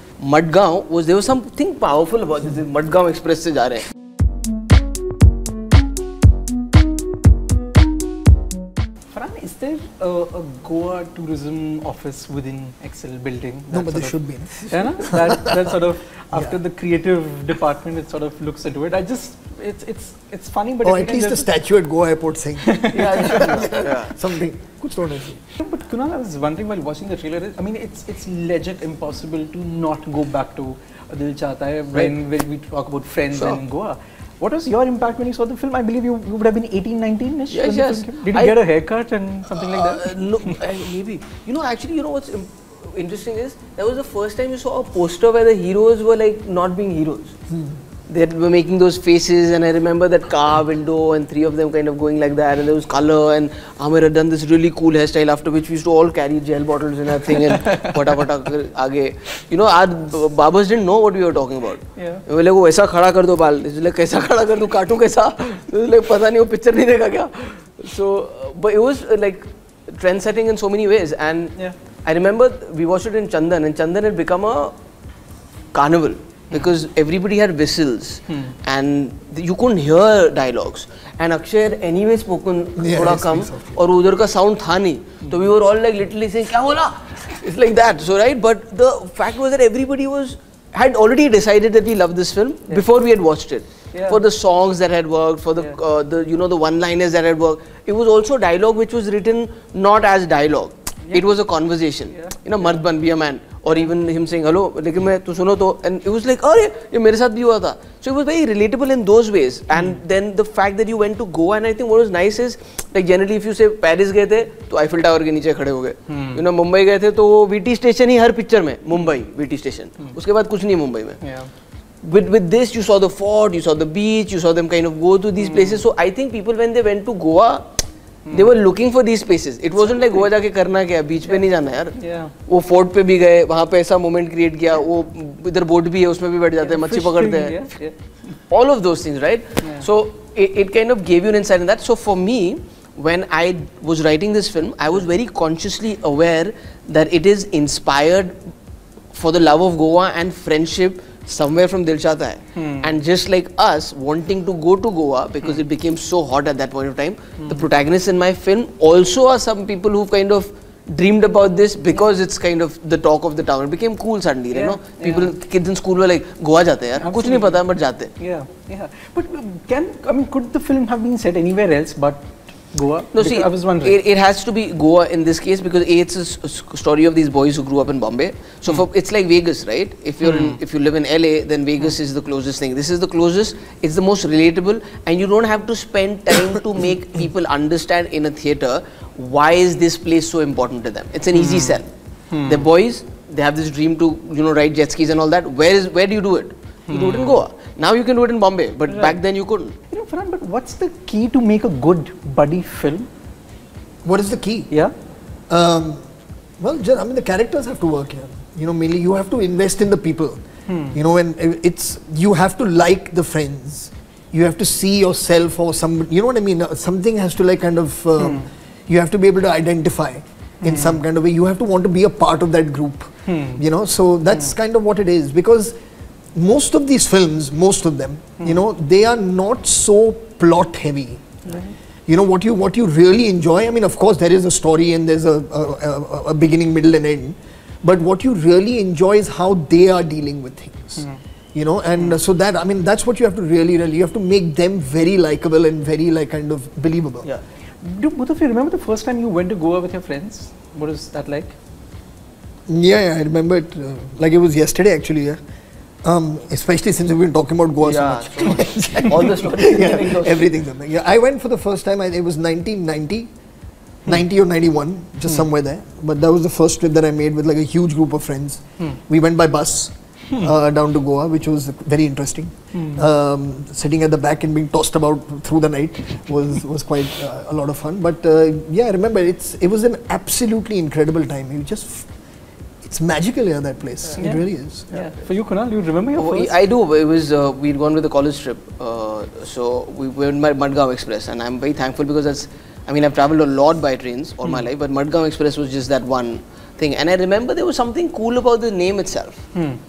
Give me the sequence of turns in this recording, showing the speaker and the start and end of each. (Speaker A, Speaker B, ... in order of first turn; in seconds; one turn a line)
Speaker A: 0.2-3.9
Speaker B: 9.1-14.2
Speaker C: 13.7-15.6
Speaker B: 14.7-21.5
Speaker C: 20.8-25.4
Speaker B: 22.6-23.7
Speaker A: 22.9-24.1
Speaker B: 25.6-40.5
Speaker A: 37.5-38.6
Speaker A: 39.5-47.4
Speaker A: 48.1-74.7
Speaker B: 57.3-58.0
Speaker B: 62.0-62.2
Speaker A: 75.7-121.2
Speaker C: 82.8-83.8
Speaker B: 93.9-94.2
Speaker B: 102.1-102.4
Speaker B: 116.1-116.4
Speaker B: 121.2-121.5
Speaker A: 122.0-127.7
Speaker B: 125.4-125.8
Speaker B: 128.3-128.5
Speaker A: 128.3-137.7
Speaker B: 132.0-132.3
Speaker B: 136.6-137.9
Speaker A: 138.5-148.4
Speaker A: 149.1-168.1
Speaker B: 152.6-153.0
Speaker B: 164.5-165.3
Speaker B: 167.0-167.6
Speaker B: 168.2-174.0
Speaker A: 173.1-191.9
Speaker B: 180.2-180.6
Speaker B: 191.3-191.8
Speaker B: 192.3-192.7
Speaker A: 192.4-199.8
Speaker B: 196.9-197.4
Speaker B: 198.9-199.2
Speaker B: 199.9-203.1
Speaker C: 204.0-204.7
Speaker C: 205.5-206.0
Speaker C: 206.6-210.4
Speaker B: 210.7-211.0
Speaker C: 210.9-225.7
Speaker B: 218.2-218.5
Speaker B: 220.6-221.0
Speaker B: 223.3-223.6
Speaker C: 226.3-231.4
Speaker B: 231.5-231.7
Speaker C: 232.1-247.3
Speaker B: 247.8-251.6
Speaker C: 252.7-255.4
Speaker C: 256.0-263.3
Speaker A: 257.8-260.5
Speaker C: 264.1-282.1
Speaker B: 272.7-273.1
Speaker C: 282.8-284.9
Speaker B: 284.2-286.5
Speaker A: 286.2-299.4